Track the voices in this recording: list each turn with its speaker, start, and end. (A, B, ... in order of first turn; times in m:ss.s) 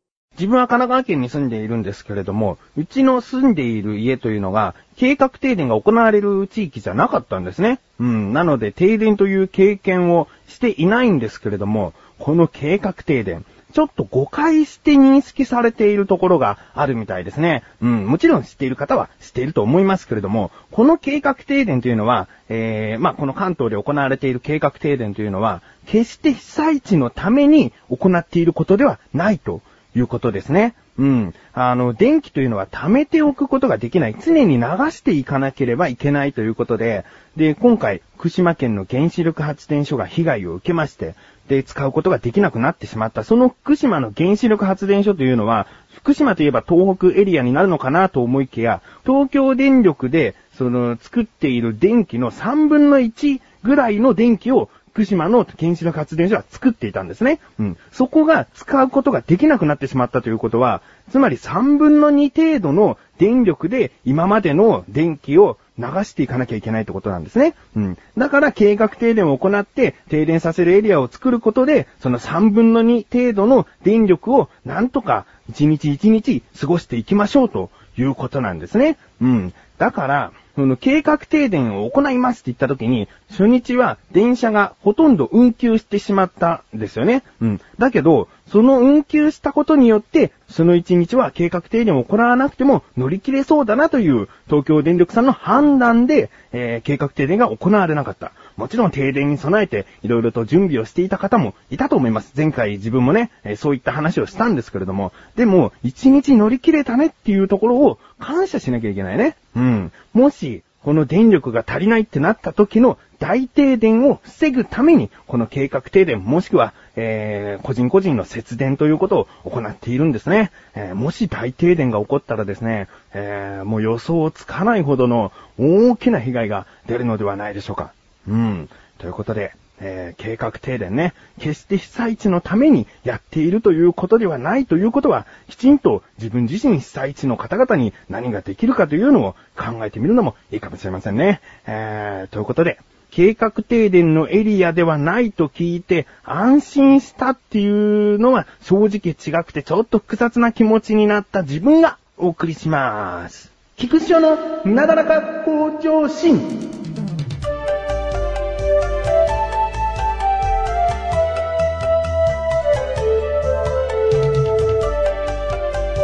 0:00.4-2:36.5 A